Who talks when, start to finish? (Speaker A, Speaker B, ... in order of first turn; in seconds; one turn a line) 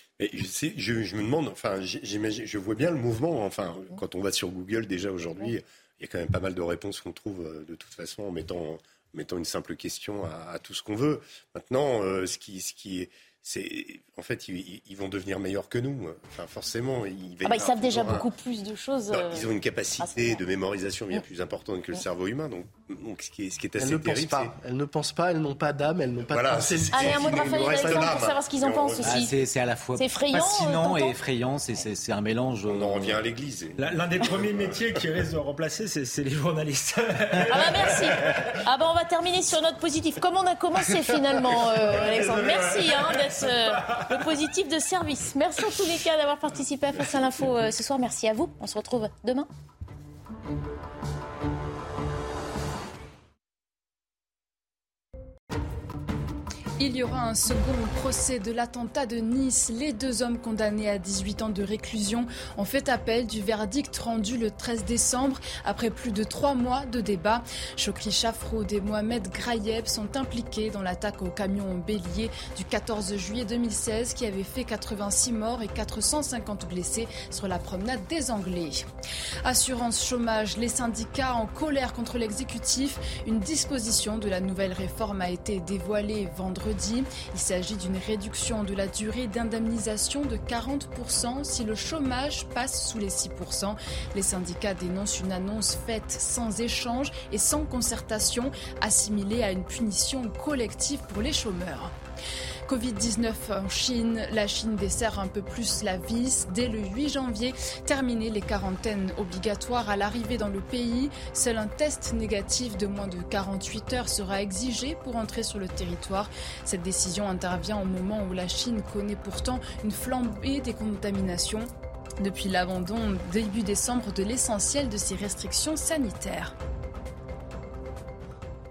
Speaker A: 0.2-18.3
Speaker B: 17.4-20.4
Speaker A: 19.1-24.6
Speaker C: 23.8-28.2
Speaker A: 26.3-29.2
Speaker B: 26.9-29.4
Speaker D: 29.0-33.2
Speaker B: 29.9-31.2
Speaker A: 32.6-35.0
Speaker E: 33.8-38.5
Speaker B: 37.5-49.5
Speaker E: 41.9-44.1
Speaker F: 56.8-78.8
Speaker F: 79.4-101.9
Speaker F: 102.7-121.7
Speaker F: 122.2-126.5